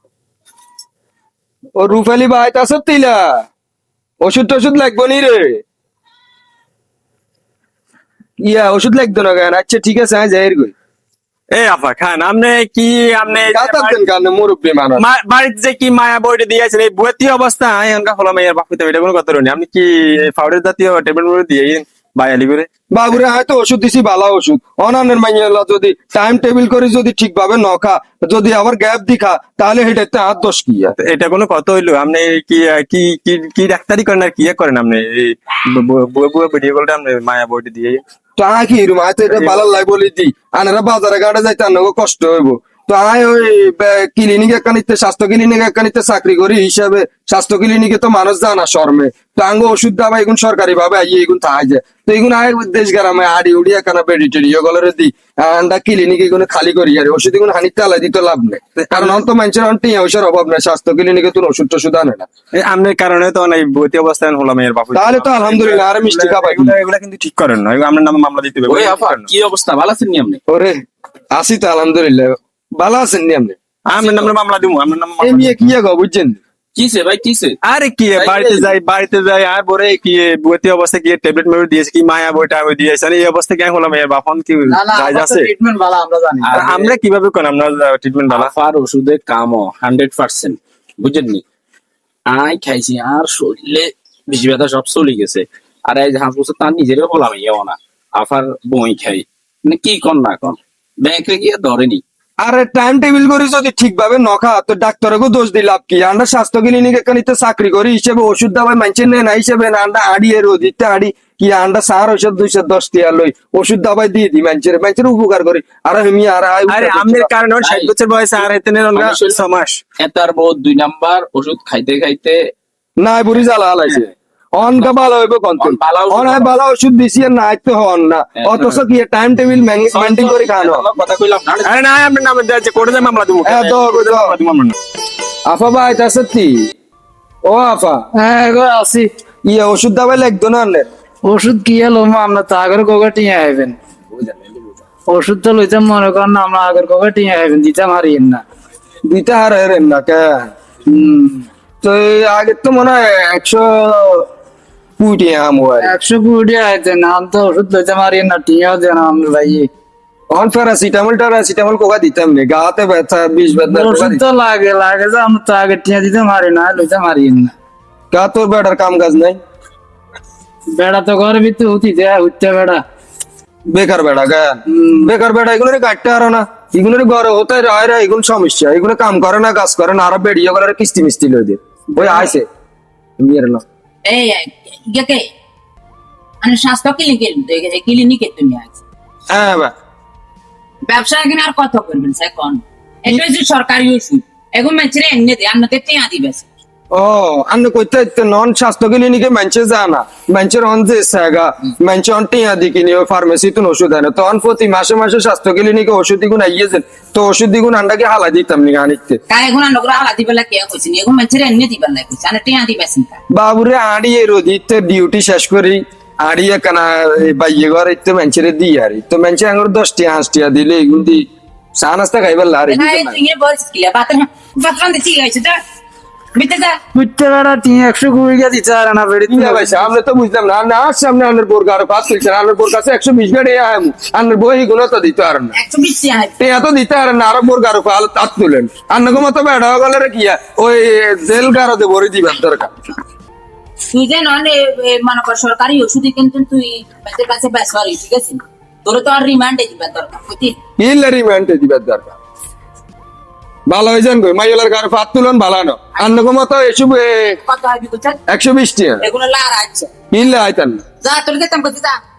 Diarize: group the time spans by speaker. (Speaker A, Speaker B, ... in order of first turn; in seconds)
Speaker A: 1.8-3.5, 4.2-5.6, 8.4-10.7, 13.3-15.0, 22.9-30.9, 38.4-62.3, 65.0-66.8, 70.5-70.8, 71.3-73.6, 75.2-76.4, 102.4-117.3, 123.0-130.9, 133.4-134.4, 135.5-136.7, 137.5-138.1, 139.5-140.9, 149.1-150.5, 151.8-154.3, 155.0-156.0, 160.3-164.2, 168.1-169.4, 173.7-182.4, 183.2-183.6, 189.3-189.7, 196.9-209.2, 213.3-221.2, 221.8-223.2, 229.3-235.6, 236.4-242.7, 250.8-252.2, 253.7-257.4, 258.3-259.0, 260.1-260.8
Speaker B: 11.5-14.0, 15.0-22.7, 31.0-38.0, 39.3-39.6, 58.8-59.2, 62.5-69.3, 73.9-75.6, 77.6-85.5, 86.5-88.5, 116.7-119.8, 131.7-134.8
Speaker C: 68.7-70.4, 74.0-74.3, 76.8-77.6, 78.1-78.7, 86.4-87.0, 88.3-91.4, 92.3-102.0, 117.6-117.9, 118.9-119.4, 120.0-122.5, 125.6-126.6, 128.4-128.8, 129.9-131.8
Speaker D: 84.7-86.6, 138.2-139.1, 141.2-143.8, 145.1-148.4, 150.9-151.5, 155.8-159.7, 163.6-167.5, 170.8-172.8, 174.8-175.1, 181.9-182.3, 226.9-229.9
Speaker E: 184.1-185.2, 186.4-188.8, 190.9-196.5, 209.3-213.2, 222.7-225.6, 226.3-226.8, 235.5-236.3, 243.9-250.6, 257.5-258.2, 259.0-259.9, 261.0-262.0